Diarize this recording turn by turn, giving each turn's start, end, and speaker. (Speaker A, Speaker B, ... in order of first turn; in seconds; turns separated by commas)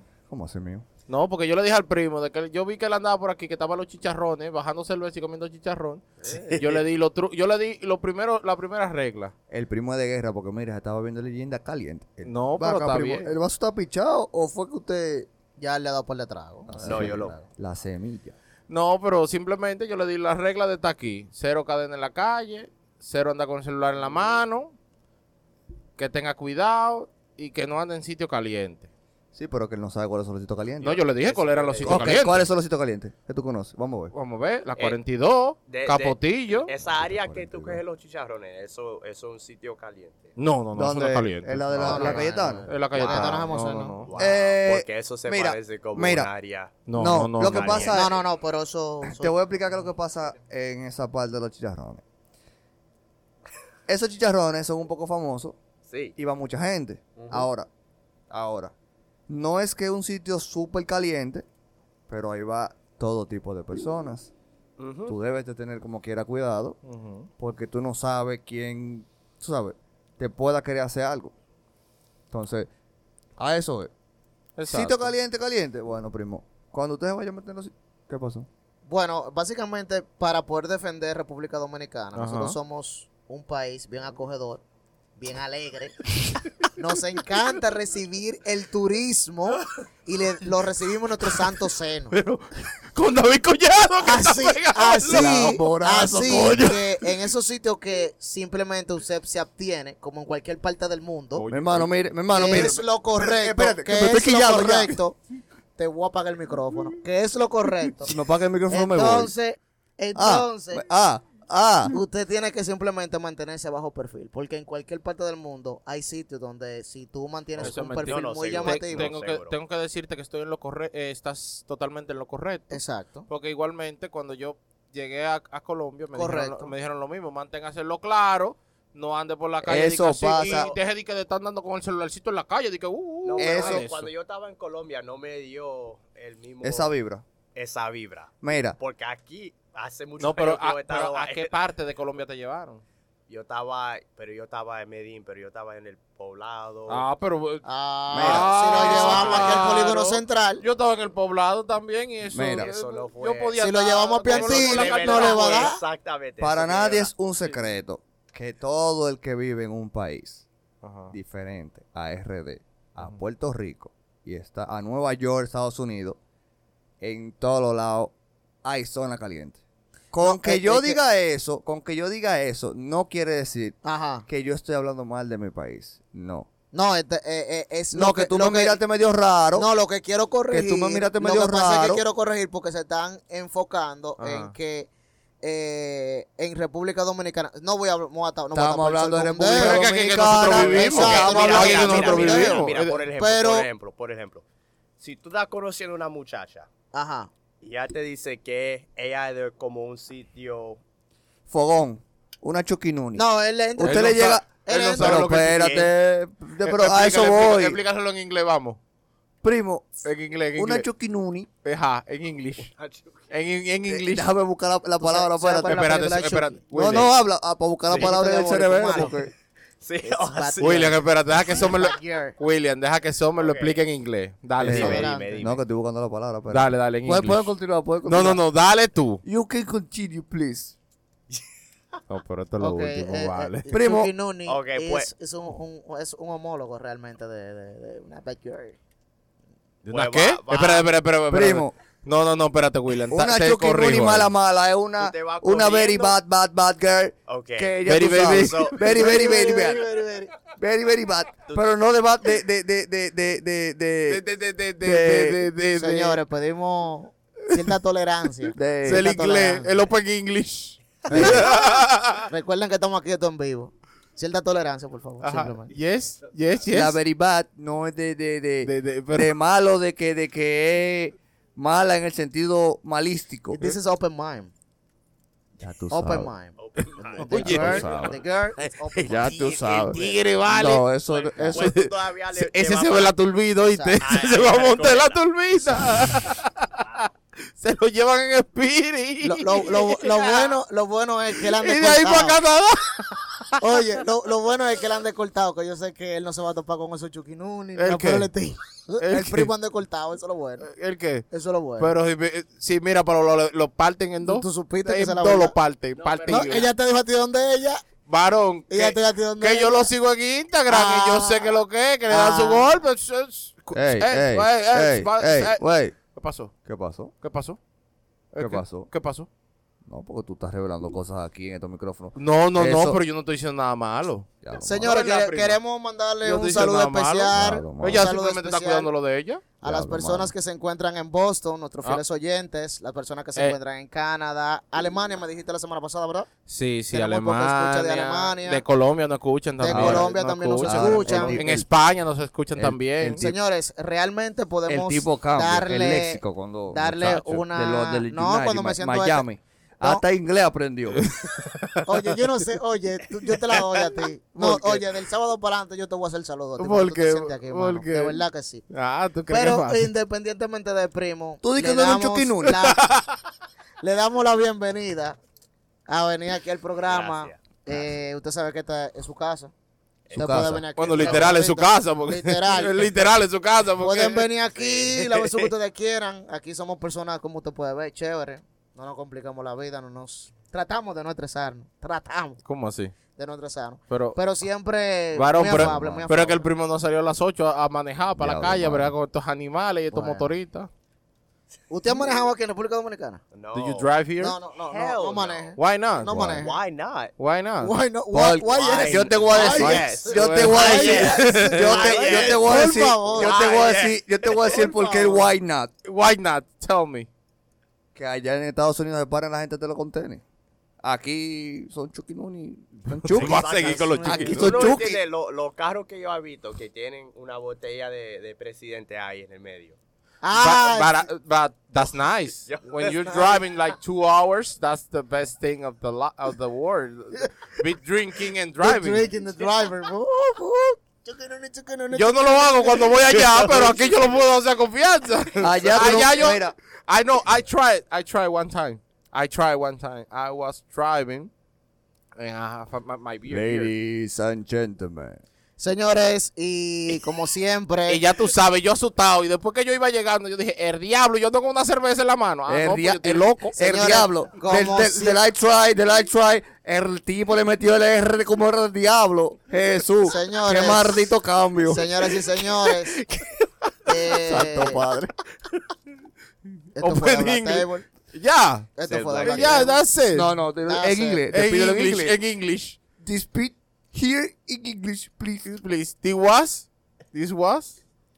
Speaker A: 0.3-0.8, Speaker B: 1.1-9.3, Speaker C: 6.2-6.8, Speaker A: 9.5-15.3, Speaker B: 12.3-13.3, Speaker D: 15.6-17.4, Speaker A: 16.7-18.4, Speaker C: 16.8-17.3, Speaker B: 18.7-24.7, Speaker B: 26.0-28.9, Speaker A: 29.3-31.1, Speaker B: 30.8-32.5, Speaker C: 31.2-32.2, Speaker A: 31.9-34.1, Speaker B: 34.1-36.7, Speaker C: 35.7-40.3, Speaker A: 36.8-37.8, Speaker B: 40.4-44.1, Speaker A: 40.8-43.5, Speaker D: 41.8-44.0, Speaker C: 43.0-43.5, Speaker C: 44.0-46.7, Speaker A: 44.1-46.3, Speaker B: 46.9-48.0, Speaker A: 46.9-48.2, Speaker C: 47.5-48.0, Speaker D: 47.9-49.4, Speaker A: 49.0-52.0, Speaker A: 53.9-55.6, Speaker C: 55.9-56.1, Speaker A: 56.2-57.7, Speaker A: 58.3-58.7, Speaker A: 59.3-61.5, Speaker A: 62.1-64.3, Speaker C: 64.8-65.2, Speaker A: 65.1-66.8, Speaker B: 66.8-67.3, Speaker A: 67.4-71.3, Speaker A: 72.3-72.7, Speaker A: 73.4-73.9, Speaker B: 74.6-75.1, Speaker A: 74.7-78.5, Speaker D: 78.9-84.6, Speaker B: 82.1-82.6, Speaker D: 85.2-86.0, Speaker D: 86.7-92.2, Speaker B: 92.1-96.9, Speaker D: 94.0-101.4, Speaker A: 95.1-96.8, Speaker B: 101.4-101.9, Speaker A: 101.5-105.0, Speaker D: 102.3-105.2, Speaker B: 102.5-102.7, Speaker D: 105.8-108.2, Speaker A: 108.0-109.3, Speaker D: 108.7-110.8, Speaker A: 110.2-112.0, Speaker D: 111.9-119.1, Speaker C: 117.6-119.6, Speaker B: 117.6-134.1, Speaker D: 122.7-123.3, Speaker D: 126.2-126.7, Speaker A: 129.6-130.7, Speaker C: 130.4-130.8, Speaker C: 133.2-136.9, Speaker A: 133.4-133.9, Speaker A: 136.6-137.2, Speaker C: 137.6-141.5, Speaker A: 138.4-138.8, Speaker B: 140.2-142.8, Speaker C: 143.3-147.0, Speaker B: 146.9-155.7, Speaker D: 147.6-150.6, Speaker A: 148.1-149.3, Speaker C: 149.0-149.8, Speaker A: 152.3-152.7, Speaker C: 152.6-153.6, Speaker D: 153.6-155.8, Speaker C: 154.2-157.1, Speaker A: 156.4-160.5, Speaker B: 160.8-161.1, Speaker A: 161.1-166.2, Speaker A: 167.0-168.1, Speaker A: 168.6-169.6, Speaker A: 170.1-176.5, Speaker D: 170.2-171.0, Speaker D: 173.8-174.3, Speaker D: 176.7-178.8, Speaker A: 177.9-179.7, Speaker D: 179.6-184.9, Speaker A: 180.5-182.0, Speaker B: 184.2-184.6, Speaker D: 185.4-193.7, Speaker A: 188.5-192.0, Speaker B: 189.5-193.0, Speaker C: 190.9-194.4, Speaker C: 195.0-196.7, Speaker D: 196.9-197.3, Speaker C: 197.6-200.8, Speaker A: 201.5-203.2, Speaker D: 203.2-205.2, Speaker A: 203.8-207.8, Speaker B: 203.8-205.8, Speaker C: 205.1-205.9, Speaker B: 206.6-208.8, Speaker A: 209.4-210.0, Speaker B: 210.0-210.9, Speaker A: 210.6-211.5, Speaker B: 211.6-212.7, Speaker C: 212.7-213.3, Speaker B: 213.3-214.3, Speaker A: 213.9-216.2, Speaker D: 215.0-216.6, Speaker B: 215.6-217.1, Speaker A: 216.7-219.3, Speaker C: 217.9-218.2, Speaker D: 217.9-219.2, Speaker C: 218.9-219.2, Speaker C: 219.8-221.7, Speaker D: 220.0-222.4, Speaker B: 220.6-225.1, Speaker C: 223.4-223.8, Speaker A: 224.6-228.4, Speaker C: 224.6-225.6, Speaker D: 224.7-225.4, Speaker B: 226.5-227.5, Speaker B: 228.0-229.2, Speaker A: 229.2-230.7, Speaker B: 232.1-233.7, Speaker D: 232.6-238.8, Speaker A: 233.7-234.1, Speaker C: 234.5-235.1, Speaker B: 239.8-244.3, Speaker C: 239.9-240.9, Speaker A: 241.3-241.7, Speaker A: 243.1-249.8, Speaker C: 245.0-246.2, Speaker C: 247.3-248.8, Speaker B: 247.8-248.8, Speaker D: 248.8-250.3, Speaker A: 250.6-254.2, Speaker B: 254.1-256.2, Speaker A: 254.8-255.4, Speaker D: 255.8-259.9, Speaker A: 258.6-259.1, Speaker B: 258.8-262.3, Speaker D: 261.1-265.7, Speaker A: 261.1-261.5, Speaker B: 265.2-267.0, Speaker A: 266.7-273.6, Speaker B: 268.6-269.3, Speaker D: 273.6-274.5, Speaker A: 275.6-276.3, Speaker D: 275.9-279.7, Speaker C: 276.6-280.3, Speaker B: 277.2-278.1, Speaker A: 277.4-278.1, Speaker B: 279.1-280.9, Speaker A: 279.5-279.9, Speaker A: 280.5-281.8, Speaker C: 281.1-283.1, Speaker B: 281.4-290.5, Speaker D: 283.6-284.1, Speaker C: 284.0-285.2, Speaker D: 289.2-292.4, Speaker B: 291.4-294.0, Speaker D: 293.6-300.7, Speaker B: 297.8-298.3, Speaker B: 299.0-299.5, Speaker B: 300.6-306.7, Speaker D: 301.3-301.9, Speaker D: 304.2-305.6, Speaker C: 306.0-306.7, Speaker D: 306.3-307.8, Speaker B: 308.1-316.5, Speaker D: 308.7-309.9, Speaker D: 310.7-312.8, Speaker A: 313.7-315.9, Speaker A: 316.6-317.1, Speaker B: 317.2-317.6, Speaker B: 318.3-319.3, Speaker A: 318.4-318.9, Speaker A: 319.9-323.0, Speaker B: 322.2-325.6, Speaker A: 324.4-324.9, Speaker D: 324.6-328.9, Speaker B: 326.2-329.4, Speaker A: 327.3-328.1, Speaker D: 329.6-336.3, Speaker A: 329.6-330.3, Speaker B: 336.5-343.3, Speaker D: 336.9-338.6, Speaker D: 339.6-341.4, Speaker A: 339.7-340.1, Speaker A: 340.6-341.7, Speaker A: 342.6-343.4, Speaker D: 343.2-349.2, Speaker A: 344.7-351.1, Speaker B: 351.0-351.8, Speaker D: 351.9-358.6, Speaker A: 354.4-354.9, Speaker B: 356.6-359.9, Speaker D: 359.3-362.9, Speaker A: 361.4-362.7, Speaker B: 362.6-363.1, Speaker D: 363.8-365.2, Speaker D: 365.9-369.5, Speaker C: 366.9-367.8, Speaker C: 370.1-371.3, Speaker D: 370.1-372.9, Speaker A: 370.1-370.6, Speaker B: 370.8-374.3, Speaker D: 373.8-382.4, Speaker C: 374.5-375.5, Speaker B: 382.4-382.9, Speaker D: 383.2-386.4, Speaker B: 383.9-384.2, Speaker B: 385.2-390.7, Speaker A: 385.5-386.2, Speaker A: 388.2-388.9, Speaker D: 389.9-390.4, Speaker D: 391.7-393.2, Speaker C: 393.3-393.9, Speaker B: 393.5-394.4, Speaker D: 394.2-396.6, Speaker C: 394.7-395.5, Speaker B: 395.6-396.1, Speaker A: 396.0-396.4, Speaker C: 396.3-397.1, Speaker B: 397.2-397.7, Speaker D: 397.6-403.4, Speaker A: 398.1-405.7, Speaker C: 398.5-405.3, Speaker B: 399.2-401.8, Speaker B: 405.9-407.1, Speaker A: 407.9-410.2, Speaker A: 410.8-413.5, Speaker B: 412.9-414.8, Speaker C: 413.1-419.8, Speaker D: 413.4-414.7, Speaker A: 414.1-415.0, Speaker D: 420.2-421.1, Speaker B: 420.3-429.1, Speaker C: 422.5-423.4, Speaker D: 428.6-433.9, Speaker B: 431.9-441.3, Speaker A: 435.4-436.6, Speaker D: 435.6-436.0, Speaker B: 442.2-443.7, Speaker A: 443.3-445.2, Speaker D: 445.6-448.0, Speaker B: 447.9-453.6, Speaker A: 452.5-461.9, Speaker D: 453.6-455.2, Speaker D: 460.0-461.0, Speaker D: 461.7-463.0, Speaker C: 462.7-463.9, Speaker D: 463.9-464.8, Speaker A: 464.2-465.1, Speaker D: 466.8-467.9, Speaker B: 466.8-470.4, Speaker D: 468.8-469.8, Speaker C: 468.9-469.7, Speaker A: 470.1-472.2, Speaker D: 470.7-471.2, Speaker B: 471.3-472.8, Speaker A: 473.0-475.4, Speaker B: 475.4-477.8